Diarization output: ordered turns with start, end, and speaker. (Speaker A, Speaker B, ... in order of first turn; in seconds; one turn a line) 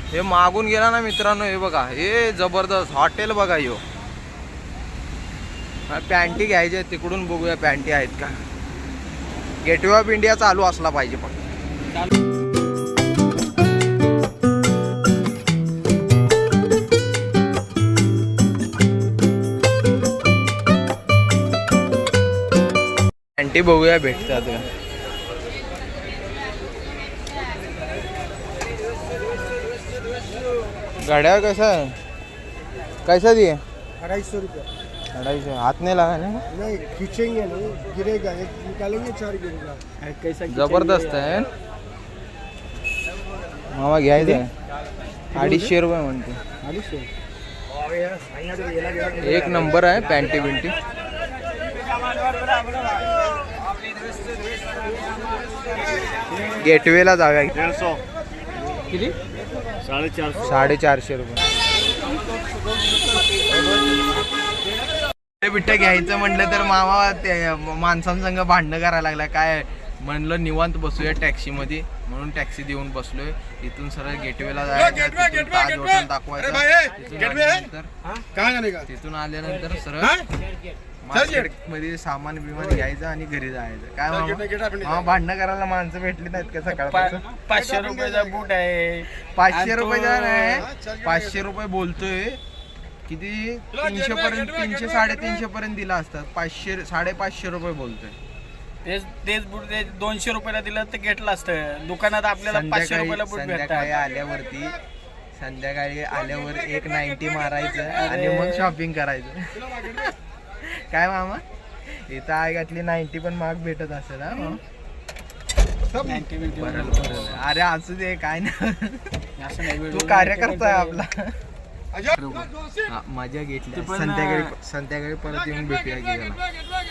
Speaker A: 0.1-3.8
Speaker A: 5.9-8.3
Speaker A: 9.6-11.4
Speaker A: 23.4-24.6
Speaker A: 31.0-31.9
Speaker A: 33.0-33.6
Speaker B: 34.2-34.5
Speaker A: 35.1-36.5
Speaker B: 36.7-39.7
Speaker C: 40.0-41.4
Speaker A: 40.5-41.5
Speaker A: 43.7-44.5
Speaker C: 44.2-44.4
Speaker C: 45.3-45.7
Speaker A: 45.3-46.4
Speaker C: 46.6-47.1
Speaker A: 49.1-50.7
Speaker A: 56.6-57.7
Speaker B: 59.9-60.4
Speaker A: 60.4-61.4
Speaker A: 65.4-77.9
Speaker A: 78.8-80.2
Speaker A: 81.0-87.2
Speaker C: 86.7-90.6
Speaker A: 89.3-92.4
Speaker A: 93.1-98.1
Speaker C: 98.8-103.9
Speaker A: 102.5-104.8
Speaker A: 105.4-111.4
Speaker C: 107.9-108.7
Speaker A: 112.1-114.6
Speaker C: 115.9-117.4
Speaker A: 116.5-119.2
Speaker C: 119.4-121.0
Speaker A: 119.8-121.3
Speaker C: 122.1-122.5
Speaker A: 122.9-126.4
Speaker C: 123.7-124.5